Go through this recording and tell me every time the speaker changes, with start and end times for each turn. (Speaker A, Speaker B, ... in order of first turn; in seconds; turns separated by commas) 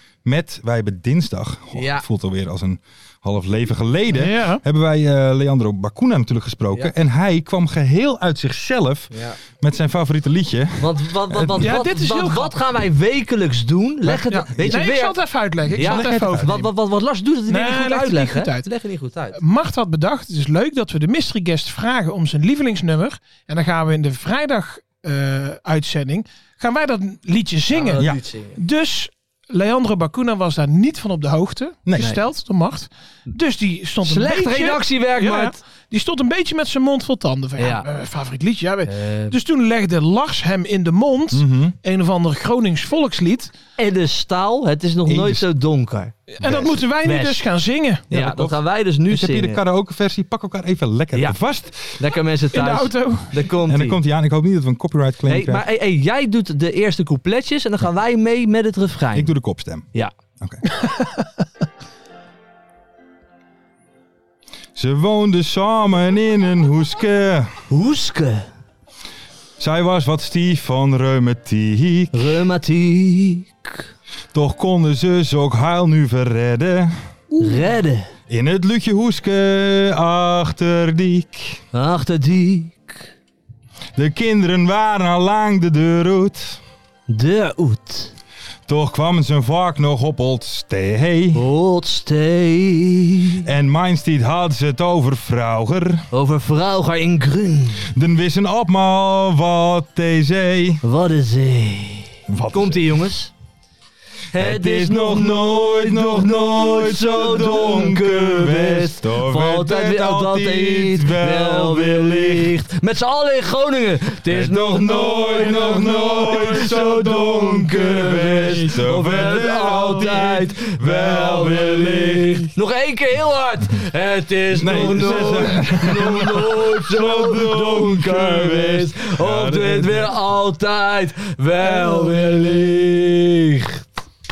Speaker A: 0.2-11.8, Speaker B: 1.7-2.0, Speaker C: 4.1-4.6, Speaker B: 9.1-9.4, Speaker B: 10.8-15.1, Speaker C: 11.6-12.6, Speaker C: 14.1-16.7, Speaker B: 15.7-19.4, Speaker A: 15.7-16.6, Speaker C: 17.5-18.7, Speaker C: 19.4-43.5, Speaker B: 27.7-28.6, Speaker A: 31.9-32.1, Speaker B: 34.0-35.6, Speaker B: 37.6-37.9, Speaker B: 38.9-39.3, Speaker A: 41.3-41.7, Speaker B: 43.8-47.4, Speaker A: 45.0-45.5, Speaker C: 46.4-48.1, Speaker A: 46.4-46.8, Speaker B: 48.1-49.6, Speaker A: 48.1-52.0, Speaker B: 51.1-51.4, Speaker B: 51.9-54.0, Speaker C: 52.5-53.3, Speaker A: 53.7-55.6, Speaker B: 55.3-59.3, Speaker A: 59.1-59.9, Speaker C: 60.8-61.1, Speaker A: 64.7-67.6, Speaker B: 67.7-68.5, Speaker A: 69.6-72.3, Speaker B: 72.1-73.9, Speaker A: 74.3-76.9, Speaker C: 77.3-77.6, Speaker B: 77.4-78.1, Speaker A: 78.3-81.6, Speaker B: 81.7-83.1, Speaker A: 84.0-86.6, Speaker B: 87.1-88.1, Speaker A: 88.7-91.4, Speaker B: 91.3-93.4, Speaker A: 93.4-96.1, Speaker B: 96.1-97.9, Speaker A: 97.9-100.8, Speaker B: 100.8-103.3, Speaker A: 102.3-103.0, Speaker B: 104.3-133.9, Speaker A: 104.3-112.5, Speaker A: 114.3-122.5, Speaker A: 124.5-130.2, Speaker C: 131.6-132.2